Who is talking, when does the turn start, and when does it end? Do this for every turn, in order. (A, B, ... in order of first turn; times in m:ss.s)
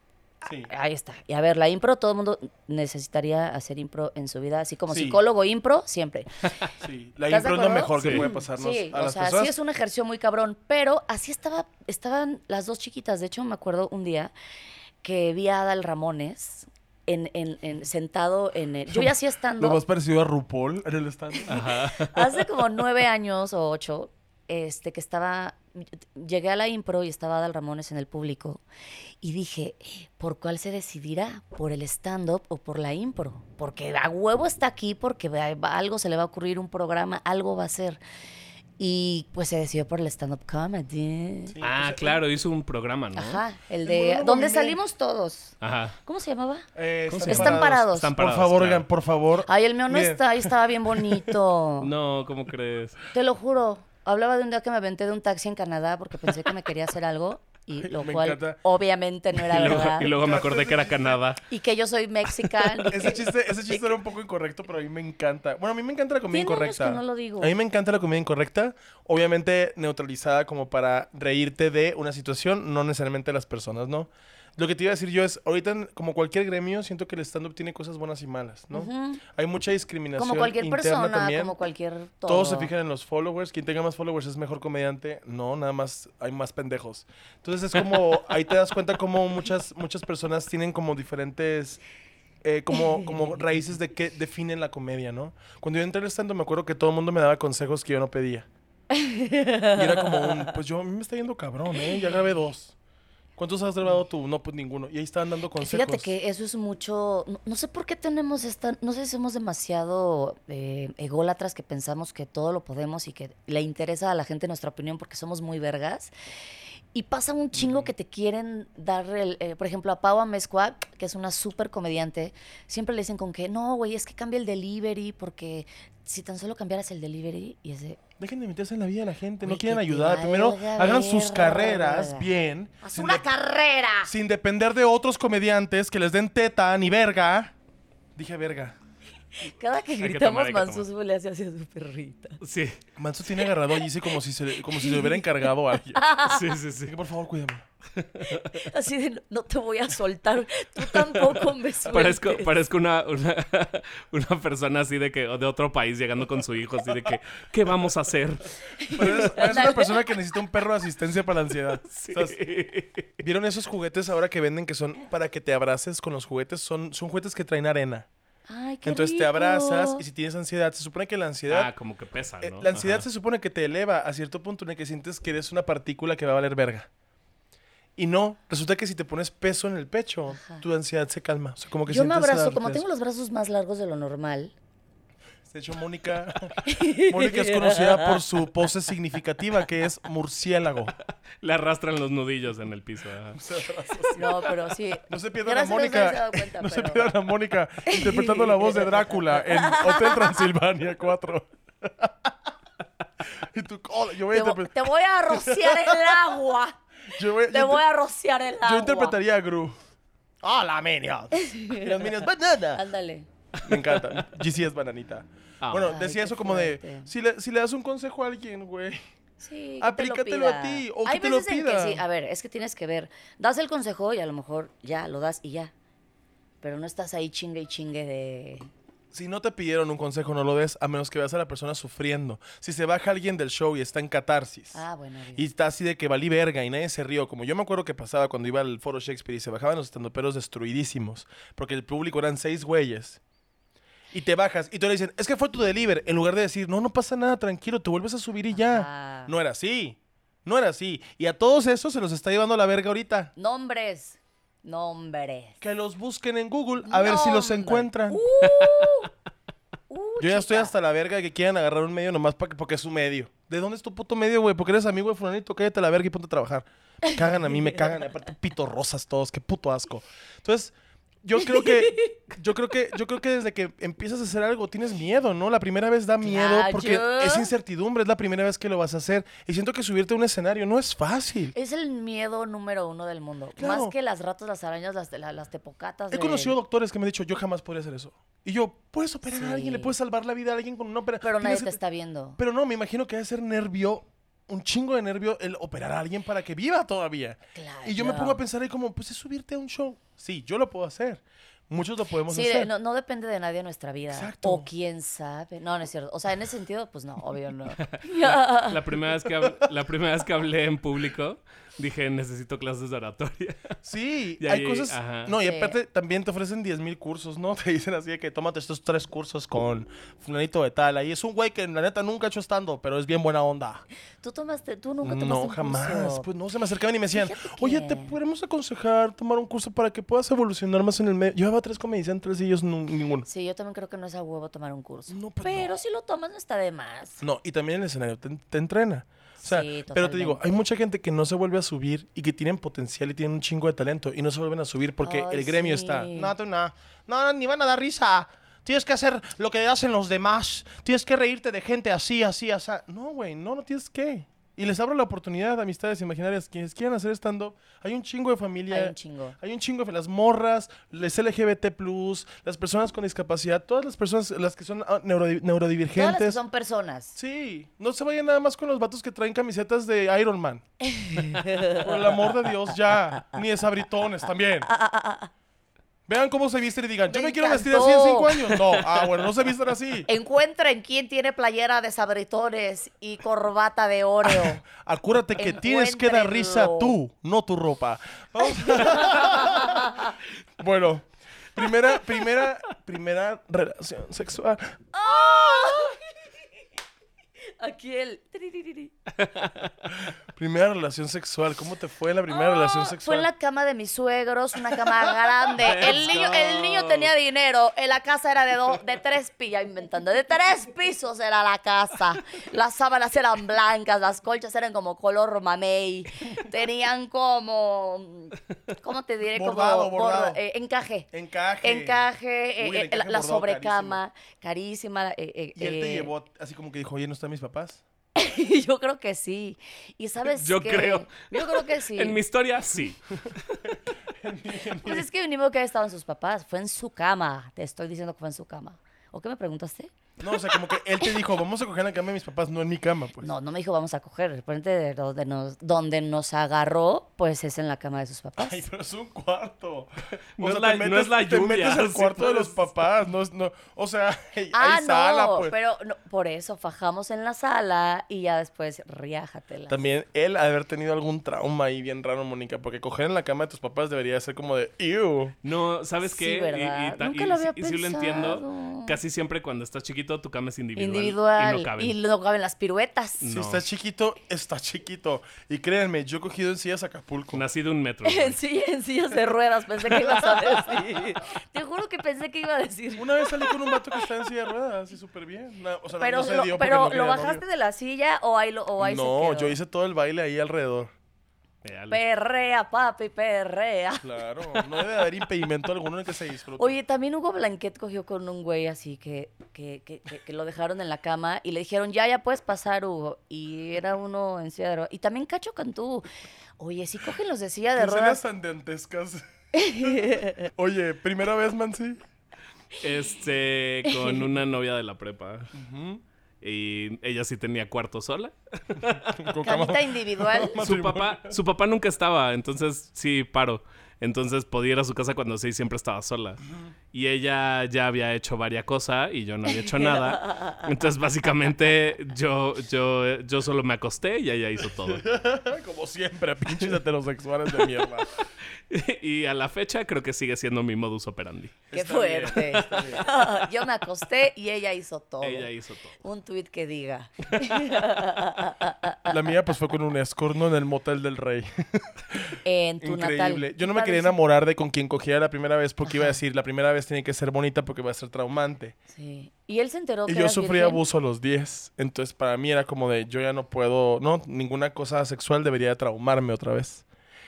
0:00.4-0:00.7 A
0:00.7-0:06.6 B
0:04.9-0:05.2 A
0:06.8-0:09.5 A
0:07.3-0:14.3 B
0:08.0-0:08.3 C
0:15.0-0:19.8 B
0:18.9-0:21.6 A
0:21.5-0:28.6 B
0:21.5-0:22.4 C
0:29.2-0:38.0 B
0:38.8-0:41.5 B
0:41.5-0:42.2 A
0:41.6-0:43.4 C
0:43.1-0:46.7 B
0:43.8-0:44.8 A
0:45.6-0:46.0 C
0:46.8-0:50.5 A
0:47.1-0:48.9 C
0:47.2-0:48.1 B
0:49.5-0:51.9 B
0:51.8-0:53.0 C
0:53.1-1:00.1 B
0:57.8-0:58.6 A
0:59.4-1:01.4 C
1:00.0-1:01.2 A
1:01.5-1:03.8 B
1:02.9-1:21.6 A
1:06.3-1:07.5 B
1:18.7-1:19.2 B
1:20.2-1:22.7 B
1:22.3-1:31.8 A
1:32.4-1:38.5 A
1:38.9-1:40.5 B
1:39.7-1:42.8 A
1:43.4-1:46.1 A
1:45.6-1:56.1 B
1:56.9-2:08.0 B
1:57.6-1:57.9 A
2:08.2-2:13.3 A
2:09.4-2:12.3 B
2:12.8-2:14.1 B
2:14.0-2:17.5 A
2:18.2-2:18.8 A
2:19.4-2:22.4 B
2:20.0-2:20.9 C
2:22.4-2:22.8 C
2:23.0-2:26.1 A
2:24.7-2:25.2 B
2:25.9-2:26.5 B
2:26.2-2:26.9 C
2:26.8-2:27.6 A
2:28.0-2:28.6 C
2:28.4-2:32.5 B
2:31.8-2:38.5 C
2:38.8-2:40.2 B
2:38.9-2:42.4 A
2:41.9-2:43.1 C
2:43.2-2:48.1 A
2:48.5-2:50.0 B
2:48.8-2:51.7 A
2:51.5-2:53.1 C
2:52.4-2:56.9 A
2:58.0-3:02.8 A
3:00.3-3:00.6 B
3:01.9-3:04.5 B
3:05.5-3:10.9 A
3:06.6-3:08.2 B
3:11.4-3:13.4 C
3:13.3-3:14.3 A
3:14.1-3:17.1 B
3:15.1-3:22.3 A
3:17.9-3:20.4 B
3:23.3-3:24.8 A
3:24.3-3:26.8 B
3:25.3-3:26.4 A
3:27.1-3:27.8 A
3:27.5-3:29.2 B
3:28.6-3:29.8 A
3:30.4-3:32.8 A
3:31.4-3:32.1 B
3:32.8-3:33.3 B
3:33.6-3:39.0 A
3:33.7-3:34.0 C
3:35.6-3:35.9 C
3:35.8-3:37.1 B
3:39.4-3:45.7 B
3:39.8-3:42.0 A
3:46.6-3:48.7 B
3:49.1-3:54.8 A
3:54.7-3:55.4 B
3:55.4-4:03.2 A
4:04.1-4:13.3 A
4:08.5-4:09.3 B
4:13.4-4:15.6 B
4:15.6-4:18.2 A
4:16.8-4:19.1 B
4:18.6-4:18.9 C
4:19.9-4:20.7 B
4:20.2-4:41.6 A
4:31.4-4:32.1 B
4:36.2-4:37.5 B
4:41.6-4:46.6 B
4:43.6-4:43.9 A
4:46.1-4:51.8 A
4:49.2-4:49.9 B
4:51.2-4:52.4 B
4:52.4-5:02.7 A
4:57.6-4:58.4 B
5:02.3-5:08.8 B
5:04.1-5:04.7 A
5:07.9-5:13.8 C
5:13.8-5:23.8 A
5:14.4-5:15.3 C
5:15.4-5:15.8 B
5:24.2-5:26.3 B
5:25.0-5:33.3 A
5:27.1-5:28.1 B
5:33.3-5:37.2 B
5:35.1-5:35.8 A
5:37.2-6:06.4 A
5:39.4-5:40.5 B
5:45.0-5:46.3 B
5:58.7-5:59.4 B
6:06.0-6:07.2 B
6:07.1-6:10.6 A
6:10.8-6:11.9 B
6:11.7-6:14.7 A
6:14.7-6:15.3 B
6:16.1-6:20.1 A
6:17.1-6:19.0 B
6:20.1-6:24.6 B
6:24.4-6:30.0 A
6:25.4-6:27.0 B
6:28.4-6:30.1 B
6:30.6-6:34.8 A
6:34.9-6:36.0 B
6:37.6-6:38.9 B
6:39.2-6:39.7 C
6:39.9-6:43.3 A
6:42.3-7:01.1 B
6:45.6-6:47.1 C
6:59.4-7:00.4 A
7:01.1-7:02.0 A
7:01.6-7:06.1 B
7:02.6-7:04.0 A
7:05.6-7:07.8 A
7:08.2-7:12.2 B
7:10.2-7:13.6 C
7:14.2-7:15.0 A
7:14.8-7:19.9 B
7:20.2-7:23.3 A
7:23.2-7:28.6 B
7:28.4-7:35.5 A
7:30.4-7:32.6 C
7:34.5-7:39.8 B
7:39.7-7:45.4 A
7:45.4-7:52.0 C
7:46.0-7:49.0 B
7:50.8-7:53.3 B
7:53.2-7:53.6 C
7:53.3-7:57.4 A
7:57.3-7:58.4 C
7:58.0-8:03.8 B
8:03.0-8:07.4 A
8:06.0-8:09.6 B
8:08.8-8:10.9 A
8:11.6-8:12.0 C
8:11.9-8:14.1 B
8:14.0-8:16.8 A
8:16.6-8:26.1 B
8:26.6-8:28.2 B
8:27.7-8:29.2 A
8:29.5-8:30.5 B
8:29.7-8:32.0 A
8:32.8-8:35.5 C
8:33.9-8:34.2 B
8:35.5-8:36.0 A
8:36.4-8:39.2 C
8:39.0-8:41.4 A
8:39.4-8:40.6 B
8:40.6-8:46.4 C
8:46.9-8:55.0 C
8:49.6-8:50.6 B
8:54.8-8:58.1 A
8:58.6-9:03.0 C
9:01.7-9:09.2 B
9:01.7-9:03.1 A
9:05.2-9:06.0 C
9:09.0-9:18.8 A
9:12.4-9:14.2 B
9:15.8-9:16.2 B
9:18.9-9:20.8 B
9:20.1-9:26.8 A